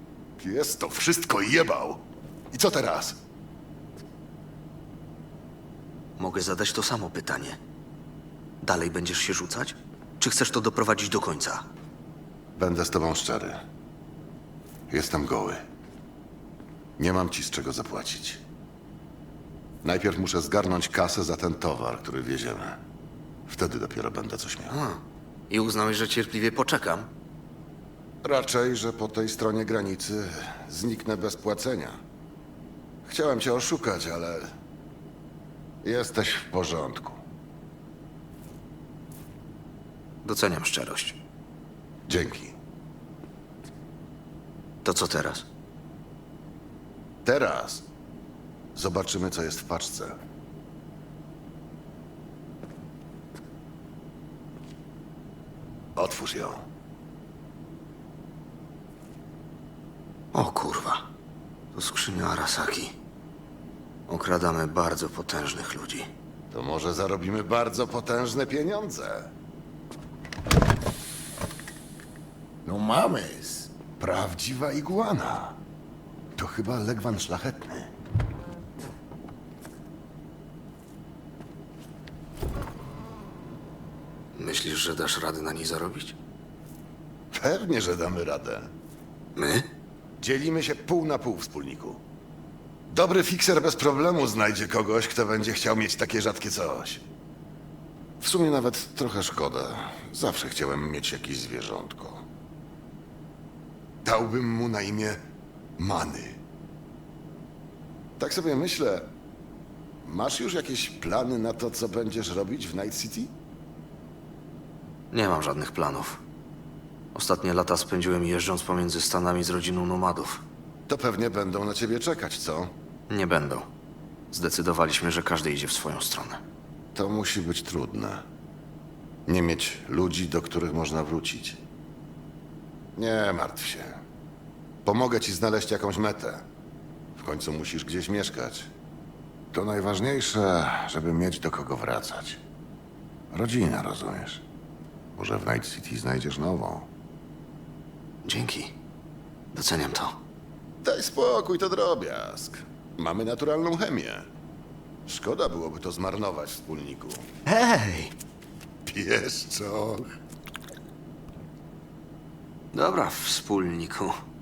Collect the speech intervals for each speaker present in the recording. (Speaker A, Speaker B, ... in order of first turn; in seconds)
Speaker A: 0.4-3.2, 12.6-13.6, 14.9-15.6, 17.0-18.4, 19.8-22.8, 23.5-24.8, 28.2-32.0, 33.0-34.5, 35.8-37.2, 42.1-42.5, 47.2-47.9, 48.7-50.2, 56.0-56.6, 66.5-69.3, 72.6-75.6, 76.4-77.9, 87.3-88.7, 90.2-92.0, 92.9-97.0, 98.2-102.3, 104.0-105.2, 105.8-106.4, 108.2-109.1, 110.0-113.3, 120.9-122.7, 126.9-128.2, 129.2-131.6, 132.9-134.0, 134.8-136.4, 137.2-138.7, 139.5-142.4, 143.3-144.4, 145.2-146.9, 150.8-154.3, 155.1-157.3, 158.8-160.1
Speaker B: 6.2-7.6, 8.6-11.7, 24.7-27.1, 40.2-41.2, 44.8-45.5, 60.3-61.1, 61.7-63.0, 64.1-66.1, 84.3-86.2, 89.3-89.7, 115.1-116.2, 117.1-120.4, 123.1-123.7, 124.3-126.4, 148.2-148.8, 149.5-150.2, 157.4-158.1, 162.7-164.2